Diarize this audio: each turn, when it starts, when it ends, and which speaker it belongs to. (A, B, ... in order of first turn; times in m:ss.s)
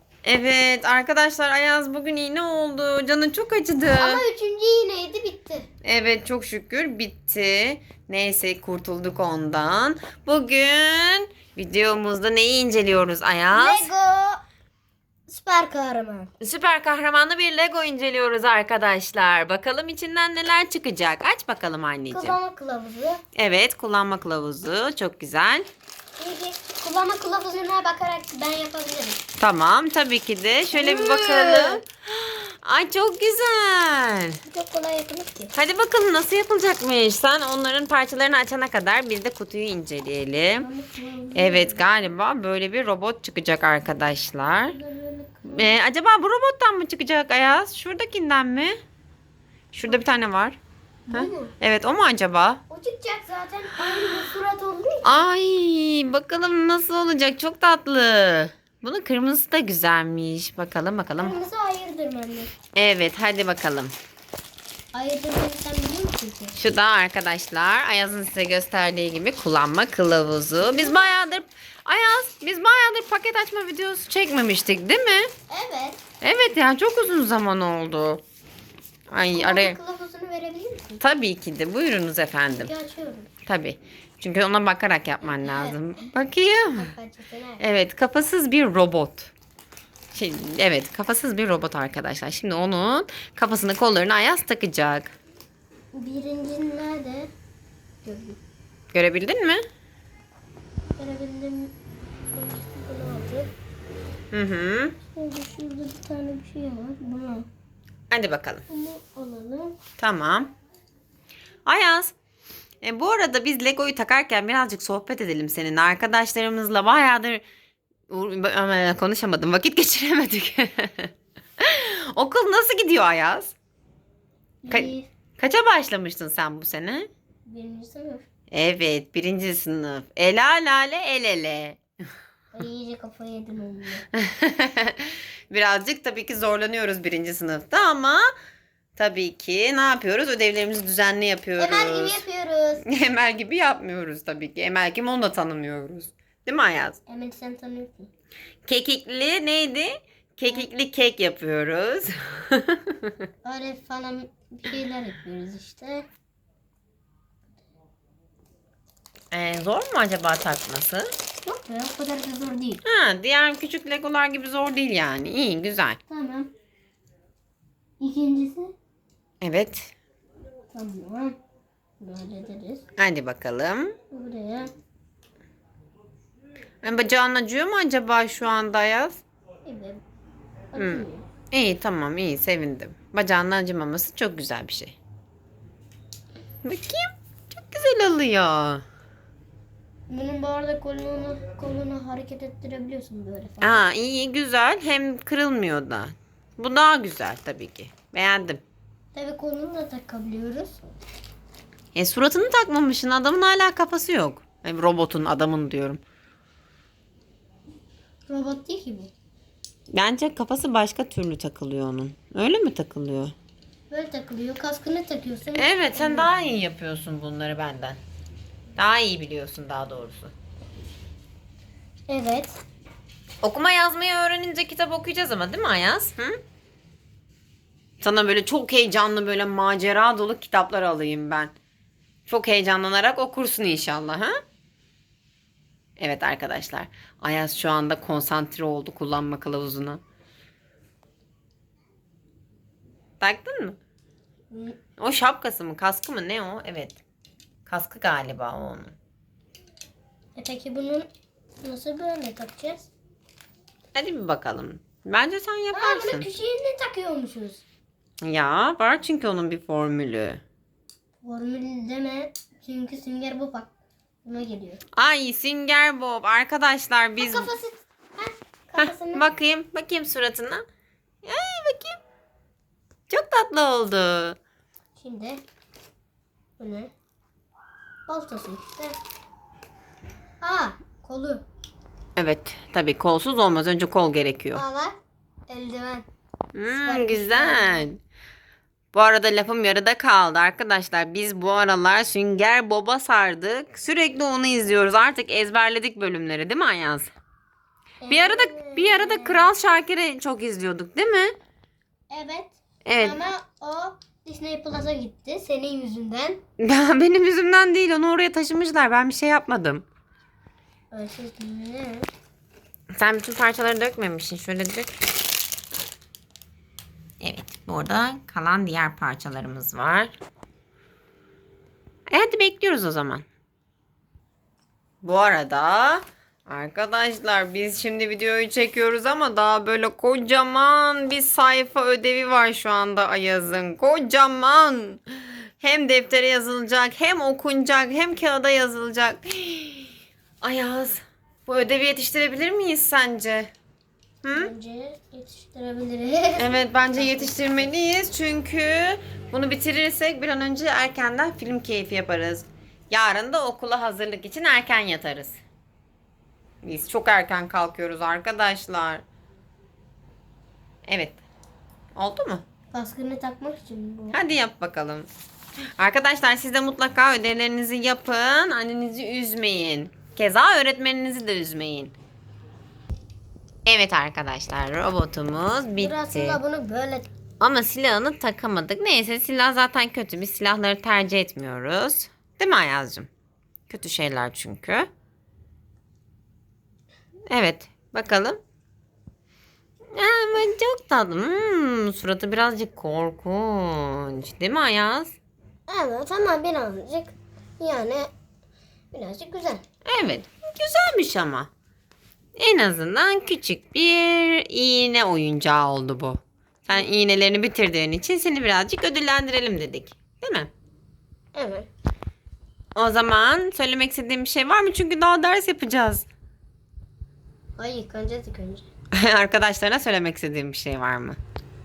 0:00.2-0:04.2 A
0:03.9-0:05.7 B
0:05.8-0:13.9 A
0:13.5-0:14.4 B
0:15.3-0:16.3 B
0:16.4-0:22.4 A
0:22.1-0:23.2 B
0:23.4-0:25.7 A
0:26.2-0:29.2 B
0:29.4-0:34.4 A
0:30.7-0:31.8 B
0:34.4-0:35.5 B
0:35.5-0:40.7 A
0:40.6-0:41.8 B
0:41.3-0:44.8 A
0:44.7-0:45.7 B
0:45.4-0:48.8 A
0:49.7-0:50.6 A
0:51.1-0:51.5 B
0:51.1-0:52.6 A
0:52.7-0:55.2 B
0:53.9-0:54.3 A
0:55.0-1:01.3 A
1:01.2-1:02.5 B
1:02.7-1:03.9 A
1:04.9-1:06.5 B
1:06.6-1:15.3 A
1:10.6-1:11.1 B
1:15.5-1:16.0 B
1:16.2-1:18.2 A
1:19.1-1:19.8 A
1:19.3-1:21.0 B
1:21.0-1:22.7 A
1:22.5-1:23.3 B
1:23.4-1:26.9 A
1:25.2-1:25.8 B
1:26.7-1:27.6 B
1:27.6-1:29.3 A
1:30.1-1:35.1 A
1:35.9-1:37.3 B
1:38.0-1:38.4 B
1:38.9-1:39.6 A
1:41.0-1:41.7 B
1:42.3-1:43.5 B
1:44.3-1:45.0 A
1:45.1-1:47.5 B
1:48.1-1:48.6 A
1:48.7-1:49.8 B
1:50.0-1:50.5 A
1:51.6-1:52.1 A
1:52.8-1:57.4 A
1:58.1-2:03.5 A
2:04.6-2:05.1 B
2:04.7-2:07.1 A
2:07.4-2:08.2 B
2:08.5-2:11.8 A
2:12.5-2:14.0 B
2:14.1-2:18.2 A
2:19.0-2:22.2 A
2:21.6-2:22.8 B
2:22.8-2:27.0 A
2:27.1-2:28.1 B
2:28.6-2:32.9 A
2:33.4-2:36.1 B
2:39.3-2:41.1 A
2:41.4-2:42.8 B
2:42.8-2:46.0 A
2:46.1-2:46.5 B
2:48.0-2:48.7 B
2:49.4-2:49.9 A
2:50.7-2:51.4 B
2:52.0-2:52.8 B
2:53.0-2:53.9 A
2:54.1-2:54.7 B
2:56.8-2:59.2 A
2:59.6-3:00.0 B
3:00.7-3:01.3 B
3:00.8-3:04.9 A
3:06.6-3:08.8 A
3:10.1-3:13.8 B
3:13.6-3:18.6 A
3:19.1-3:20.8 B
3:21.9-3:26.0 A
3:28.3-3:29.1 B
3:29.9-3:33.3 A
3:33.9-3:36.3 B
3:35.5-3:38.0 A
3:38.8-3:40.3 A
3:42.1-3:42.6 B
3:43.4-3:46.4 A
3:48.0-3:51.5 A
3:52.3-3:54.4 A
3:56.0-4:00.0 A
4:03.2-4:03.8 A
4:04.5-4:04.8 B
4:05.0-4:07.0 A
4:07.6-4:08.9 A
4:10.3-4:11.1 B
4:11.6-4:12.9 B
4:13.9-4:16.3 A
4:15.7-4:17.6 B
4:18.2-4:20.4 A
4:21.2-4:23.7 B
4:24.2-4:24.8 B
4:24.9-4:27.5 A
4:27.2-4:29.3 B
4:28.8-4:30.6 A
4:31.2-4:32.0 A
4:33.1-4:34.4 A
4:35.0-4:35.4 B
4:36.6-4:36.9 B
4:38.1-4:39.0 B
4:40.4-4:41.4 B
4:42.2-4:44.6 A
4:44.5-4:44.9 B
4:45.5-4:46.0 B
4:46.5-4:48.0 A
4:46.7-4:47.9 B
4:48.9-4:57.1 A
4:58.0-4:59.5 B
4:58.1-5:01.3 A
5:02.1-5:06.4 B
5:02.8-5:03.2 A
5:06.6-5:09.8 A
5:10.9-5:12.1 B
5:12.9-5:14.9 A
5:17.2-5:20.1 A
5:22.1-5:23.2 A
5:25.0-5:43.5 A
5:44.2-5:44.5 A
5:44.3-5:47.7 B
5:46.4-5:55.4 A
5:56.6-5:59.0 A
6:00.9-6:01.2 A
6:02.0-6:02.4 A
6:02.7-6:04.2 B
6:04.1-6:05.1 A
6:05.8-6:11.9 A
6:13.6-6:16.4 A
6:15.8-6:17.1 B
6:17.4-6:23.1 A
6:23.7-6:24.9 A
6:27.3-6:28.4 A
6:29.9-6:35.2 A
6:35.7-6:38.1 B
6:38.9-6:39.6 B
6:39.8-6:41.5 A
6:42.4-6:50.5 A
6:51.3-6:51.7 B
6:52.8-6:56.1 A
6:57.6-6:58.6 B
6:58.9-7:01.2 A